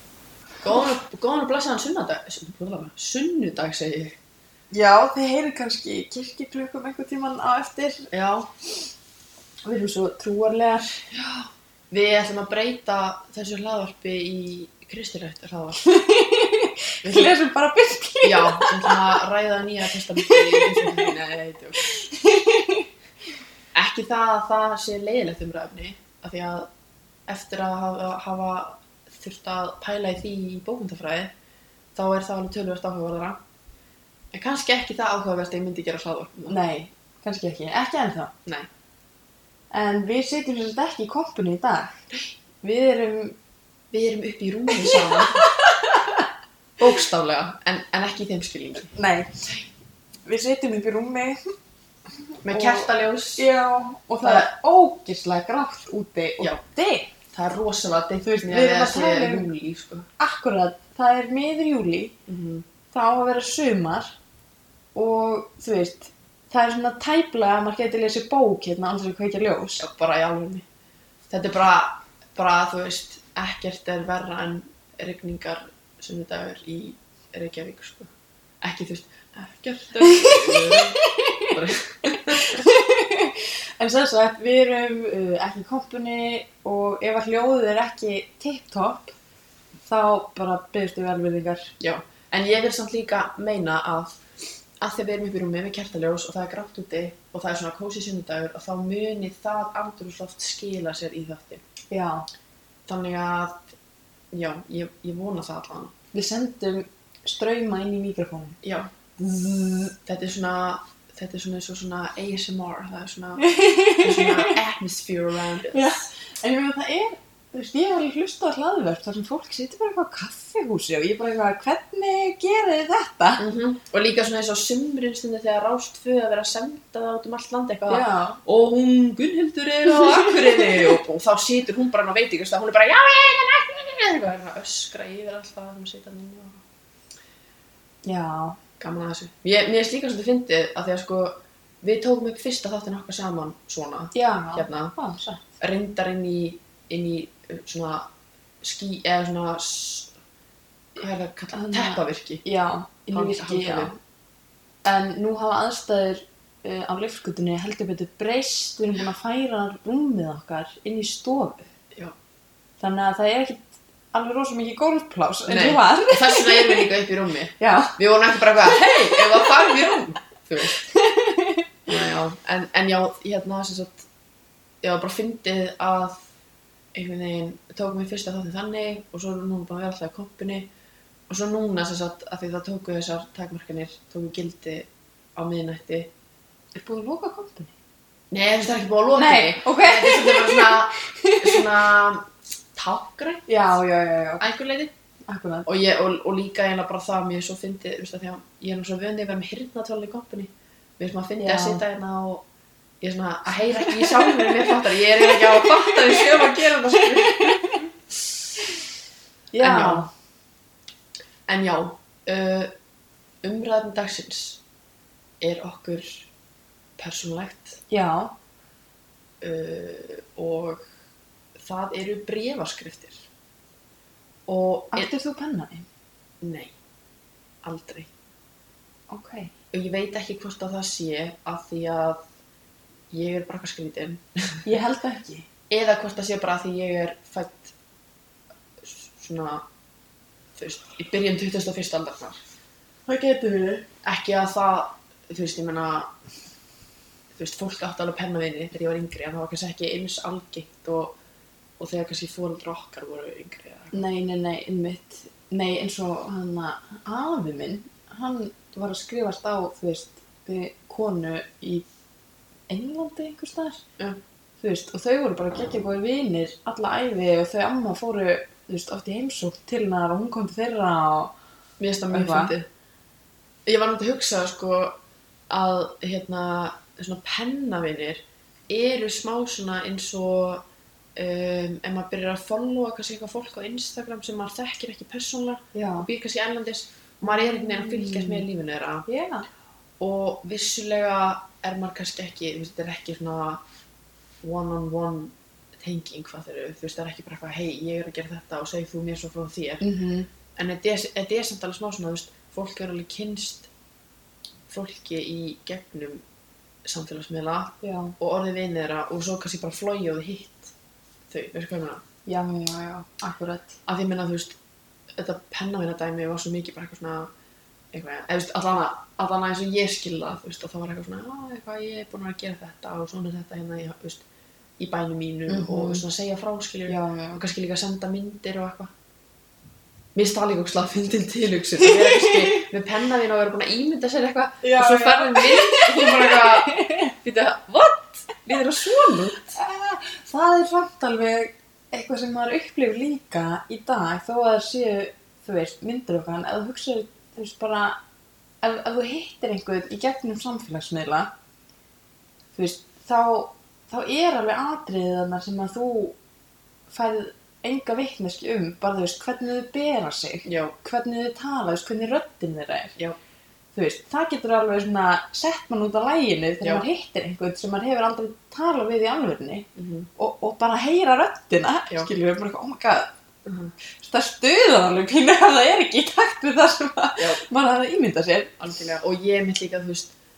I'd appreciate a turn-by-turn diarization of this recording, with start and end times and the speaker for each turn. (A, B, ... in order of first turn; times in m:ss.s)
0:00.6-0:04.2 A
0:04.7-0:08.1 B
0:08.1-0:08.5 A
0:09.6-0:11.0 B
0:11.1-0:15.8 A
0:15.8-0:19.2 B
0:17.0-0:17.3 A
0:18.2-0:21.8 A
0:20.1-0:21.1 B
0:21.8-0:22.9 B
0:23.7-0:26.7 A
0:27.3-0:31.3 A
0:31.9-0:33.4 A
0:34.3-0:36.6 A
0:36.5-0:38.3 B
0:39.7-0:42.0 B
0:42.6-0:43.4 B
0:43.9-0:45.5 A
0:44.8-0:46.3 B
0:46.8-0:48.9 A
0:48.9-0:49.5 B
0:50.3-0:51.4 B
0:52.4-0:57.1 B
0:52.4-0:53.4 A
0:54.2-0:54.5 A
0:57.3-1:00.1 A
0:58.3-0:59.5 B
1:00.2-1:02.2 B
1:02.3-1:02.7 A
1:02.9-1:04.2 B
1:05.0-1:09.8 B
1:09.8-1:10.7 A
1:11.3-1:22.6 A
1:20.0-1:29.1 B
1:29.8-1:31.7 B
1:31.8-1:34.2 A
1:34.8-1:41.6 A
1:41.9-1:42.3 B
1:42.9-1:43.7 A
1:44.3-1:45.9 A
1:46.1-1:48.6 B
1:48.6-1:48.9 A
1:49.2-1:50.0 B
1:50.1-1:55.9 A
1:53.4-1:54.6 B
1:55.7-2:03.4 B
2:03.4-2:16.6 A
2:07.9-2:08.4 B
2:09.9-2:10.9 B
2:18.0-2:18.6 B
2:18.8-2:24.9 A
2:24.1-2:25.4 B
2:25.6-2:28.1 A
2:28.6-2:30.1 A
2:31.0-2:32.4 A
2:31.5-2:34.0 B
2:33.1-2:34.0 A
2:34.8-2:41.7 B
2:42.8-2:46.9 B
2:45.5-2:50.9 A
2:47.6-2:48.0 B
2:48.7-2:49.8 B
2:50.8-2:51.7 B
2:51.9-2:54.1 A
2:54.8-2:56.2 A
2:56.9-3:00.7 A
3:01.3-3:06.1 A
3:06.8-3:07.7 B
3:08.3-3:13.4 A
3:09.2-3:11.8 B
3:13.5-3:14.4 B
3:14.4-3:14.9 A
3:15.3-3:15.7 B
3:15.7-3:22.4 A
3:21.4-3:21.8 B
3:23.0-3:27.8 A
3:23.9-3:24.6 B
3:25.3-3:26.4 B
3:27.0-3:27.8 B
3:29.5-3:30.1 B
3:29.6-3:30.1 A
3:31.5-3:32.7 A
3:33.4-3:34.6 A
3:35.4-3:36.3 A
3:37.0-3:37.8 A
3:37.9-3:38.3 B
3:39.4-3:40.9 A
3:41.6-3:43.3 A
3:44.5-3:45.1 A
3:44.9-3:45.9 B
3:46.4-3:46.7 A
3:47.6-3:48.1 A
3:49.1-3:49.5 B
3:49.7-3:52.2 A
3:53.1-3:54.6 A
3:54.6-3:55.5 B
3:55.7-3:57.7 A
3:58.8-3:59.6 A
4:00.6-4:02.4 A
4:03.1-4:03.9 B
4:04.0-4:06.1 A
4:07.4-4:11.2 A
4:11.8-4:14.0 A
4:13.9-4:21.9 B
4:22.7-4:23.8 B
4:24.6-4:31.3 B
4:31.8-4:32.7 A
4:32.1-4:32.5 B
4:33.7-4:40.6 A
4:41.2-4:49.1 A
4:45.7-4:46.1 B
4:47.4-4:48.4 B
4:49.1-4:49.5 B
4:50.0-4:53.6 A
4:54.4-4:59.8 A
4:59.8-5:00.3 B
5:00.6-5:03.7 A
5:04.7-5:06.2 A
5:06.8-5:10.7 A
5:07.8-5:08.1 B
5:11.3-5:12.0 A
5:12.3-5:13.8 B
5:13.9-5:14.6 A
5:15.2-5:17.3 A
5:17.9-5:24.2 A
5:24.8-5:28.9 A
5:25.5-5:26.0 B
5:26.9-5:27.4 B
5:30.2-5:39.6 A
5:31.8-5:32.7 B
5:34.6-5:37.1 B
5:39.5-5:48.0 B
5:48.6-5:51.3 B
5:52.6-5:56.2 B
5:56.9-6:03.0 B
6:00.4-6:00.8 A
6:03.8-6:13.1 B
6:09.8-6:10.1 A
6:13.4-6:13.7 A
6:14.0-6:18.5 B
6:17.2-6:17.4 A
6:18.6-6:20.1 A